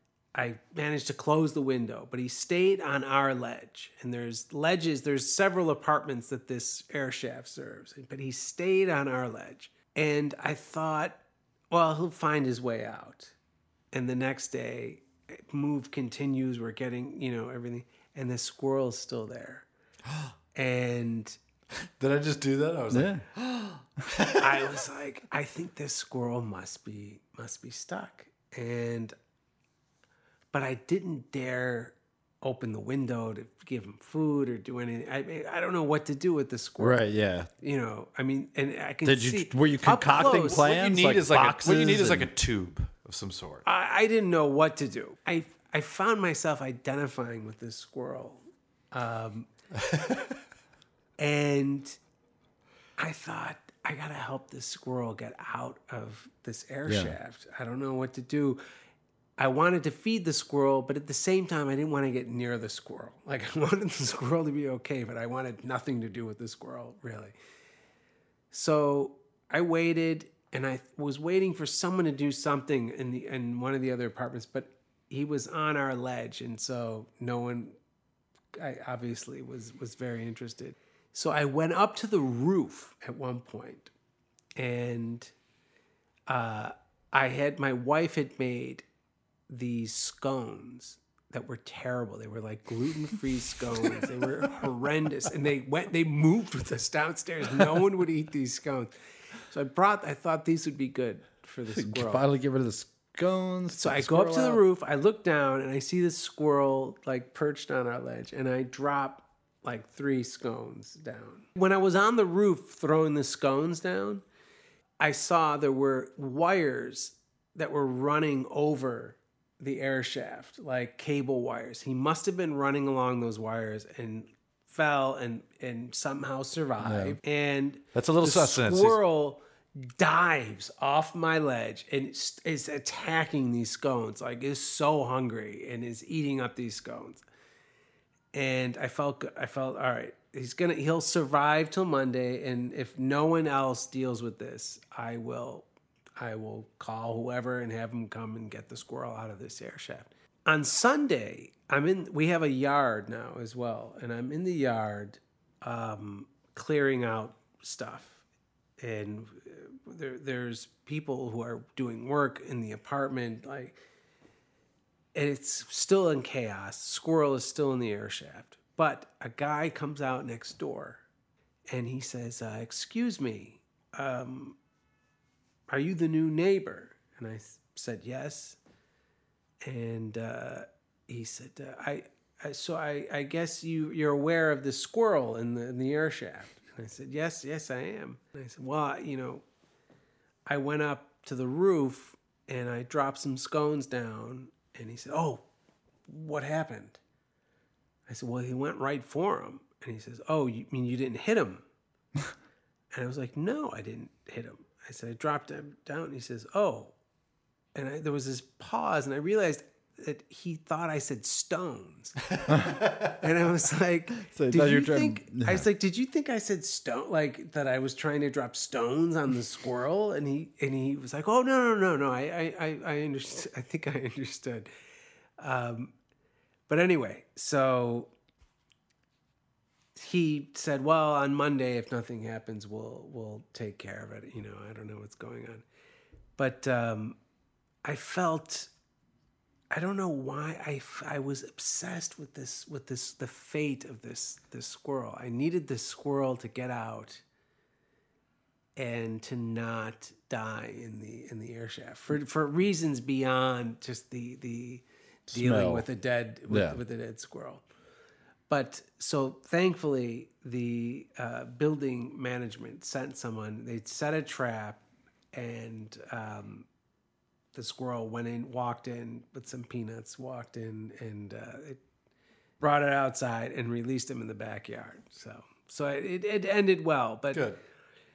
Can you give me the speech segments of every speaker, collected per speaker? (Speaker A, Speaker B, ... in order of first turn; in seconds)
Speaker A: 0.3-11.2, 11.7-13.3, 13.9-19.7, 20.6-21.4, 24.4-29.1, 30.5-37.0, 37.6-40.7, 43.6-49.5, 51.2-52.0, 53.0-58.6, 59.4-67.3, 68.5-77.8, 78.6-83.9, 84.6-85.3, 86.3-88.8, 89.5-98.9, 99.5-102.2, 103.7-114.2, 115.0-137.2, 138.3-158.2, 158.8-163.8, 165.2-171.0, 171.7-174.6, 175.7-178.6, 179.6-189.4, 190.5-195.4, 196.1-197.0, 198.1-201.6, 202.9-206.9, 207.8-224.7, 225.4-225.9, 226.7-228.1, 230.0-235.6, 236.4-237.2, 237.8-238.7, 239.7-247.2, 248.8-257.6, 258.5-264.8, 265.3-266.7, 267.5-271.8, 272.6-277.5
Speaker B: 22.0-24.4, 40.2-43.6, 127.9-129.0, 277.3-277.6
Speaker C: 22.9-23.2, 36.8-37.5, 39.0-42.3, 56.9-57.2, 101.7-104.6, 126.8-127.2, 212.5-212.8, 214.2-215.7, 255.3-255.9, 256.5-256.8